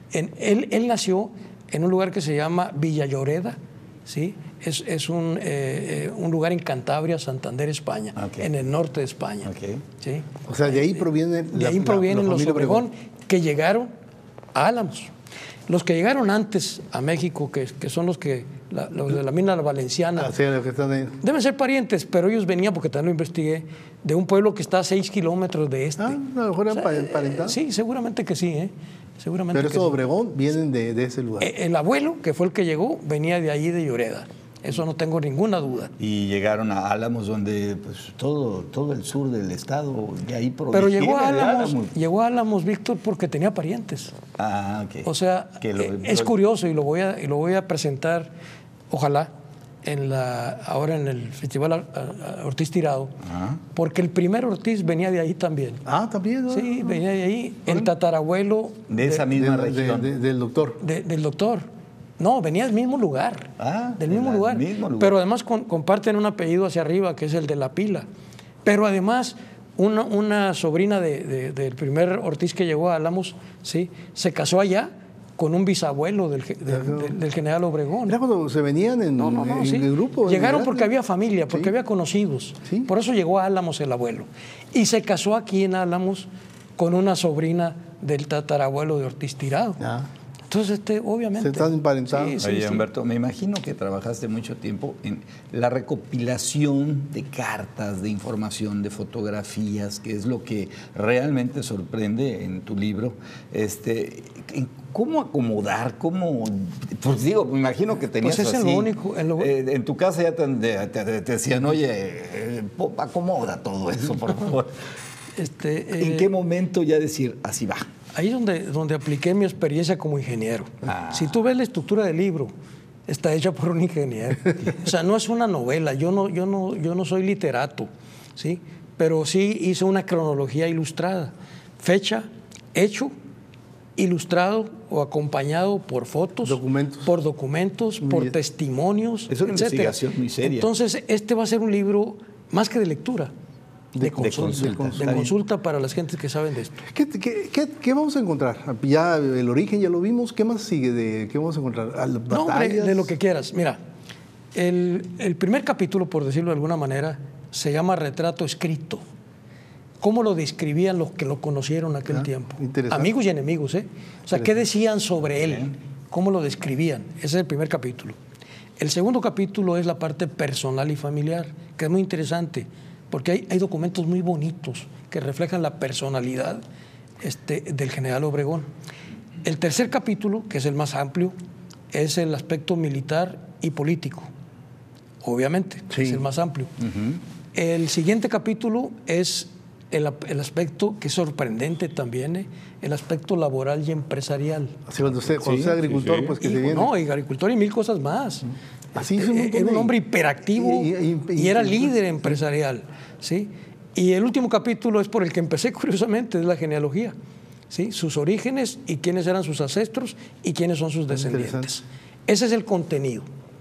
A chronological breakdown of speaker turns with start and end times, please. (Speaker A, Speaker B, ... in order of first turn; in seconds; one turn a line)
Speaker A: 0.1-13.9
Speaker B: 8.2-8.5
Speaker B: 9.4-9.8
Speaker C: 10.5-12.9
Speaker A: 14.5-15.1
Speaker A: 15.7-20.3
Speaker C: 20.2-21.2
Speaker A: 21.2-26.2
Speaker C: 26.0-27.6
Speaker A: 26.7-30.0
Speaker C: 29.5-31.5
Speaker A: 31.4-35.9
Speaker B: 36.0-41.9
Speaker A: 40.7-44.1
Speaker B: 44.4-45.1
Speaker A: 45.0-48.3
Speaker B: 45.6-46.3
Speaker A: 48.9-49.3
Speaker A: 49.8-53.1
Speaker B: 53.2-53.6
Speaker A: 53.7-55.8
Speaker C: 55.9-56.9
Speaker A: 56.5-59.2
Speaker B: 58.9-60.1
Speaker C: 59.3-60.8
Speaker A: 60.8-61.6
Speaker A: 62.2-68.0
Speaker B: 63.6-65.2
Speaker A: 68.6-78.2
Speaker C: 76.7-77.1
Speaker C: 78.1-80.9
Speaker A: 79.2-89.8
Speaker C: 89.8-90.1
Speaker A: 90.5-92.8
Speaker C: 91.4-92.4
Speaker B: 92.4-114.7
Speaker A: 108.2-109.5
Speaker A: 115.3-116.3
Speaker B: 116.0-117.8
Speaker A: 118.1-122.5
Speaker B: 120.8-121.3
Speaker A: 123.1-133.1
Speaker A: 133.9-143.3
Speaker C: 136.4-137.1
Speaker C: 138.0-138.4
Speaker B: 139.3-140.7
Speaker C: 143.9-145.3
Speaker A: 144.0-146.8
Speaker B: 144.2-145.3
Speaker C: 146.8-153.1
Speaker A: 152.3-153.8
Speaker A: 154.5-159.0
Speaker A: 160.0-168.2
Speaker C: 162.1-163.1
Speaker C: 164.3-164.6
Speaker B: 165.4-165.7
Speaker A: 168.8-176.6
Speaker A: 177.2-178.7
Speaker A: 179.4-181.3
Speaker A: 181.9-184.3
Speaker A: 185.2-186.7
Speaker C: 185.9-186.2
Speaker B: 186.8-187.2
Speaker A: 187.5-194.8
Speaker C: 194.9-196.9
Speaker B: 195.0-196.4
Speaker A: 196.4-207.1
Speaker C: 198.9-199.9
Speaker C: 200.5-202.4
Speaker A: 207.7-213.3
Speaker C: 211.1-211.7